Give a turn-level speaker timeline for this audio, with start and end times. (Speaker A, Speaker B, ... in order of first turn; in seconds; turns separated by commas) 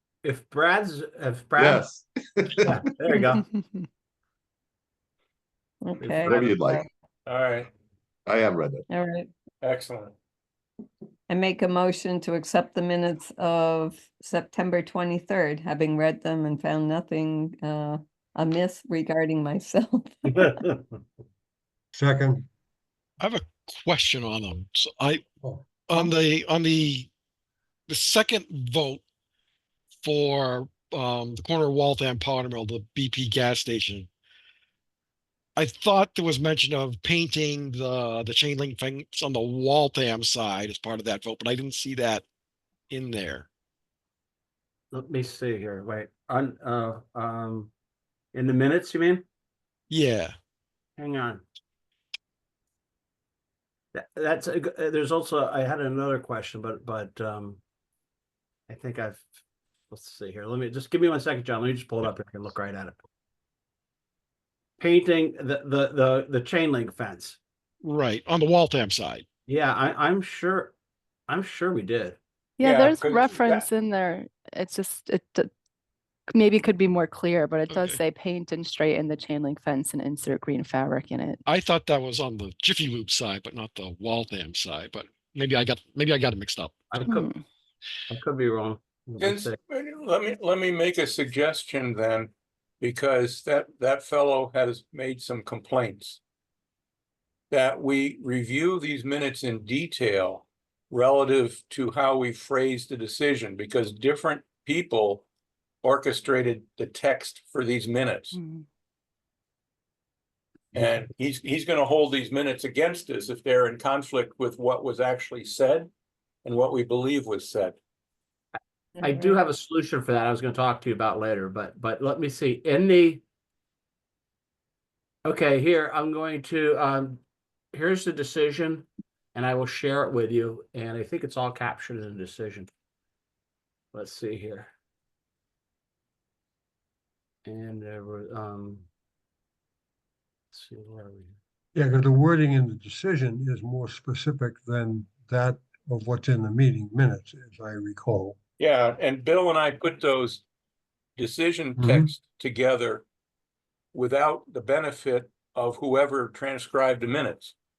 Speaker A: 0.2-1.9, Speaker B: 1.6-2.9, Speaker A: 2.6-3.4, Speaker C: 5.8-6.9, Speaker A: 6.0-6.6, Speaker B: 6.3-6.9, Speaker D: 7.2-7.7, Speaker B: 8.3-8.8, Speaker C: 8.9-9.3, Speaker D: 9.6-10.1, Speaker C: 11.3-20.6, Speaker E: 21.9-22.5, Speaker F: 23.2-25.3, Speaker E: 25.4-25.7, Speaker F: 25.9-27.1, Speaker F: 27.9-29.0, Speaker F: 30.0-34.1, Speaker F: 35.6-42.2, Speaker F: 42.9-43.5, Speaker A: 44.9-47.7, Speaker A: 48.3-49.2, Speaker F: 49.9-50.3, Speaker A: 51.0-51.4, Speaker A: 53.9-57.6, Speaker A: 58.7-59.4, Speaker A: 59.9-63.0, Speaker A: 64.8-67.4, Speaker F: 67.8-69.2, Speaker A: 69.5-70.8, Speaker A: 71.3-72.2, Speaker G: 72.6-75.5, Speaker D: 72.6-73.7, Speaker G: 76.3-81.4, Speaker F: 77.7-78.0, Speaker F: 81.4-86.9, Speaker A: 86.9-87.3, Speaker G: 87.1-87.4, Speaker A: 88.1-89.6, Speaker D: 89.2-96.2, Speaker D: 97.5-105.2, Speaker D: 105.8-108.4, Speaker G: 108.3-108.7, Speaker D: 110.7-115.9, Speaker D: 116.4-117.8, Speaker A: 119.0-123.2, Speaker C: 119.0-119.4, Speaker A: 125.2-127.2, Speaker A: 127.7-132.7, Speaker A: 133.9-134.7, Speaker A: 137.4-138.9, Speaker A: 140.5-141.3, Speaker E: 141.8-148.4, Speaker D: 148.6-150.4, Speaker D: 151.2-153.1, Speaker E: 151.8-152.1, Speaker D: 153.9-157.6